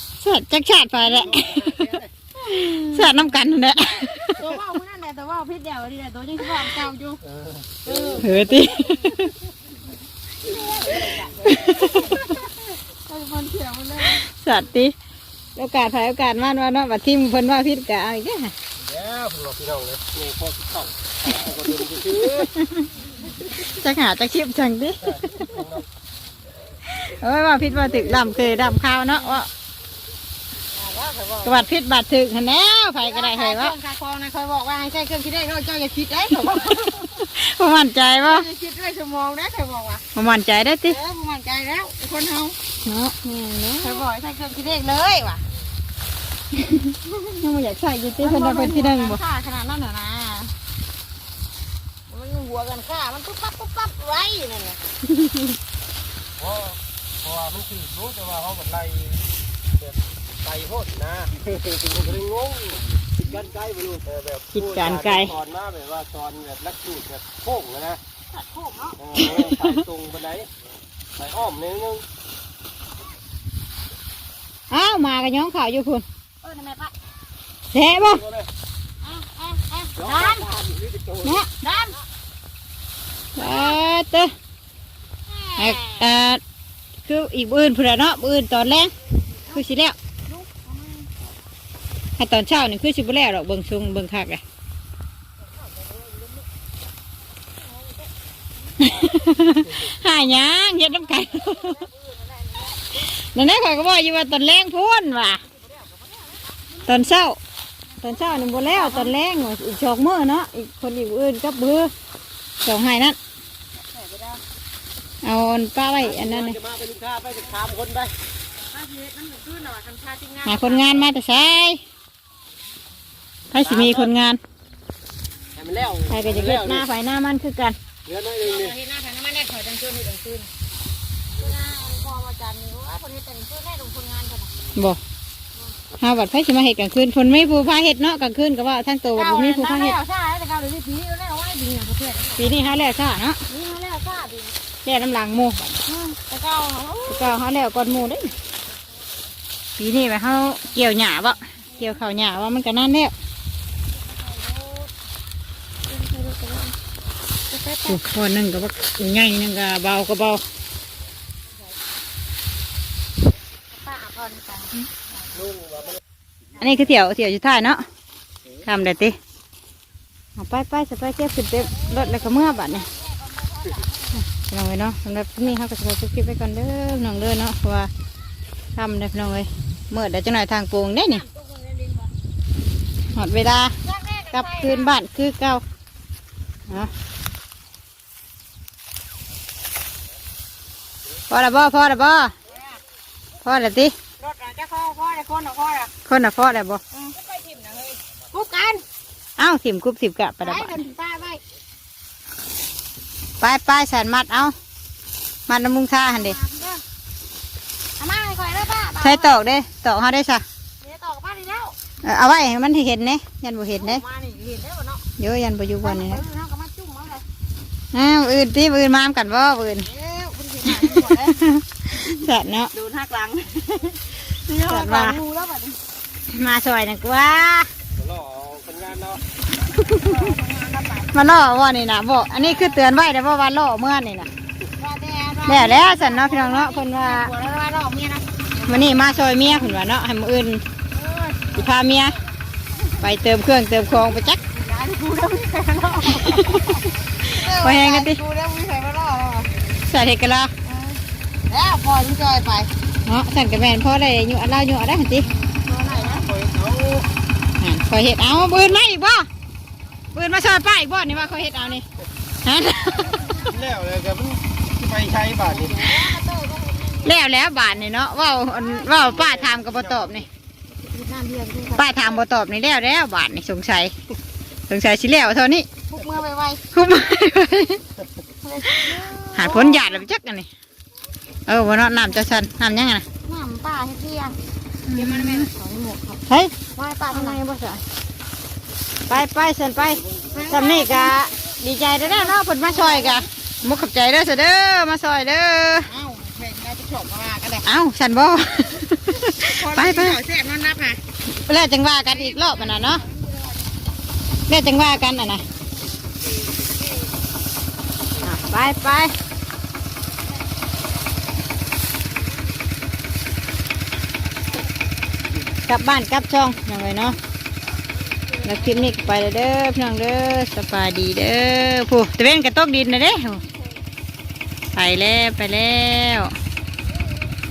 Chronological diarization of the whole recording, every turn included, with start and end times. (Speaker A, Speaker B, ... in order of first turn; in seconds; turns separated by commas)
Speaker A: 0.2-1.9, Speaker B: 1.1-2.1, Speaker C: 2.4-3.1, Speaker A: 2.6-4.4, Speaker C: 4.3-7.2, Speaker B: 7.4-8.5, Speaker C: 7.8-8.2, Speaker A: 8.2-9.3, Speaker C: 10.4-14.2, Speaker B: 10.5-11.4, Speaker A: 11.4-12.2, Speaker A: 14.2-14.9, Speaker A: 15.6-18.5, Speaker B: 18.8-22.6, Speaker A: 22.6-22.9, Speaker A: 23.6-25.2, Speaker B: 25.0-25.9, Speaker A: 26.9-29.5, Speaker B: 28.1-28.5, Speaker C: 30.7-31.7, Speaker A: 31.4-33.7, Speaker C: 33.0-37.1, Speaker A: 37.2-38.5, Speaker C: 38.2-40.0, Speaker A: 40.1-41.0, Speaker C: 40.8-42.6, Speaker A: 42.9-44.0, Speaker C: 43.8-45.4, Speaker A: 46.5-49.2, Speaker C: 48.2-50.5, Speaker C: 52.1-55.0, Speaker A: 55.0-55.6, Speaker B: 56.4-59.2, Speaker B: 59.8-68.0, Speaker A: 64.5-65.3, Speaker C: 68.3-69.0, Speaker B: 69.0-70.5, Speaker A: 69.1-69.8, Speaker B: 71.2-72.0, Speaker A: 74.7-76.0, Speaker C: 76.4-76.9, Speaker A: 77.7-78.2, Speaker B: 78.0-78.5, Speaker C: 79.0-80.5, Speaker B: 80.0-81.4, Speaker C: 81.6-82.0, Speaker A: 83.4-84.3, Speaker C: 83.4-83.8, Speaker C: 85.3-86.1, Speaker A: 85.6-86.4, Speaker A: 87.1-88.9, Speaker A: 89.5-90.0, Speaker C: 90.2-91.1, Speaker A: 92.2-94.4, Speaker C: 95.4-96.4, Speaker C: 97.6-98.1, Speaker A: 98.8-101.8, Speaker C: 100.9-103.0, Speaker A: 103.0-105.4, Speaker C: 105.5-106.6, Speaker A: 106.9-107.4, Speaker C: 107.9-109.1, Speaker A: 108.0-111.9, Speaker A: 112.6-113.2, Speaker C: 113.7-114.4, Speaker A: 115.2-116.6, Speaker B: 116.0-118.1, Speaker C: 118.7-121.1, Speaker A: 120.4-121.8, Speaker A: 123.5-124.4, Speaker B: 123.6-124.1, Speaker B: 125.6-126.8, Speaker A: 126.1-127.8, Speaker B: 128.1-128.7, Speaker C: 128.4-130.5, Speaker C: 131.4-134.5, Speaker A: 134.7-135.0, Speaker A: 136.0-140.0, Speaker C: 139.1-142.6, Speaker A: 142.4-143.4, Speaker C: 143.5-144.6, Speaker A: 144.8-145.8, Speaker C: 145.9-147.4, Speaker A: 147.1-148.3, Speaker A: 149.8-153.1, Speaker C: 151.7-152.0, Speaker C: 153.9-154.9, Speaker C: 155.9-156.7, Speaker C: 157.5-158.0, Speaker A: 157.9-160.4, Speaker C: 163.7-164.9, Speaker B: 165.4-166.0, Speaker A: 166.6-167.8, Speaker A: 168.6-169.2, Speaker A: 170.4-172.9, Speaker C: 171.6-174.2, Speaker A: 174.3-177.9, Speaker A: 178.8-181.2, Speaker C: 181.1-182.1, Speaker A: 183.1-183.7, Speaker C: 183.8-184.9, Speaker A: 184.3-185.6, Speaker A: 191.3-192.3, Speaker C: 192.5-192.8, Speaker A: 193.4-193.9, Speaker C: 194.2-195.9, Speaker A: 196.1-196.8, Speaker C: 196.9-198.8, Speaker A: 199.4-200.7, Speaker C: 200.4-201.4, Speaker A: 203.4-204.5, Speaker A: 205.5-206.4, Speaker C: 206.1-206.8, Speaker C: 208.0-209.4, Speaker A: 209.0-210.4, Speaker C: 210.8-211.8, Speaker A: 212.0-214.0, Speaker C: 213.8-215.1, Speaker A: 215.2-216.2, Speaker C: 215.8-217.2, Speaker A: 217.9-219.9, Speaker C: 219.8-221.4, Speaker A: 220.7-222.7, Speaker C: 222.7-225.8, Speaker A: 224.7-225.2, Speaker A: 226.3-227.7, Speaker B: 228.0-229.2, Speaker C: 229.7-231.3, Speaker A: 231.1-234.3, Speaker C: 232.4-232.8, Speaker C: 234.8-239.8, Speaker A: 235.5-237.3, Speaker A: 238.7-240.6, Speaker C: 240.9-241.7, Speaker A: 241.5-242.2, Speaker A: 243.0-244.4, Speaker C: 244.4-249.5, Speaker A: 246.1-246.8, Speaker A: 247.4-248.2, Speaker A: 249.9-250.5, Speaker C: 250.6-252.7, Speaker A: 253.1-255.3, Speaker C: 255.2-256.3, Speaker B: 255.9-257.1, Speaker A: 257.6-259.3, Speaker A: 260.1-261.9, Speaker A: 262.4-263.6, Speaker C: 263.1-263.5, Speaker B: 263.4-265.9, Speaker C: 265.4-267.1, Speaker A: 267.0-270.3, Speaker C: 268.6-269.1, Speaker B: 268.9-270.2, Speaker C: 270.8-272.2, Speaker A: 271.8-273.9, Speaker A: 274.7-275.7, Speaker C: 275.9-276.6, Speaker A: 276.7-277.8, Speaker C: 278.4-279.9, Speaker A: 278.7-280.5, Speaker A: 281.5-283.1, Speaker C: 283.2-284.4, Speaker A: 284.9-285.5, Speaker C: 284.9-287.4, Speaker A: 286.3-286.6, Speaker A: 287.1-287.8, Speaker A: 289.1-295.9, Speaker C: 290.3-293.3, Speaker C: 295.8-297.7, Speaker A: 297.6-300.2, Speaker C: 299.3-301.0, Speaker A: 301.2-303.0, Speaker C: 302.0-303.7, Speaker A: 304.5-305.4, Speaker A: 308.2-309.1, Speaker A: 315.6-317.2, Speaker C: 318.2-319.0, Speaker A: 318.4-323.4, Speaker A: 324.7-326.3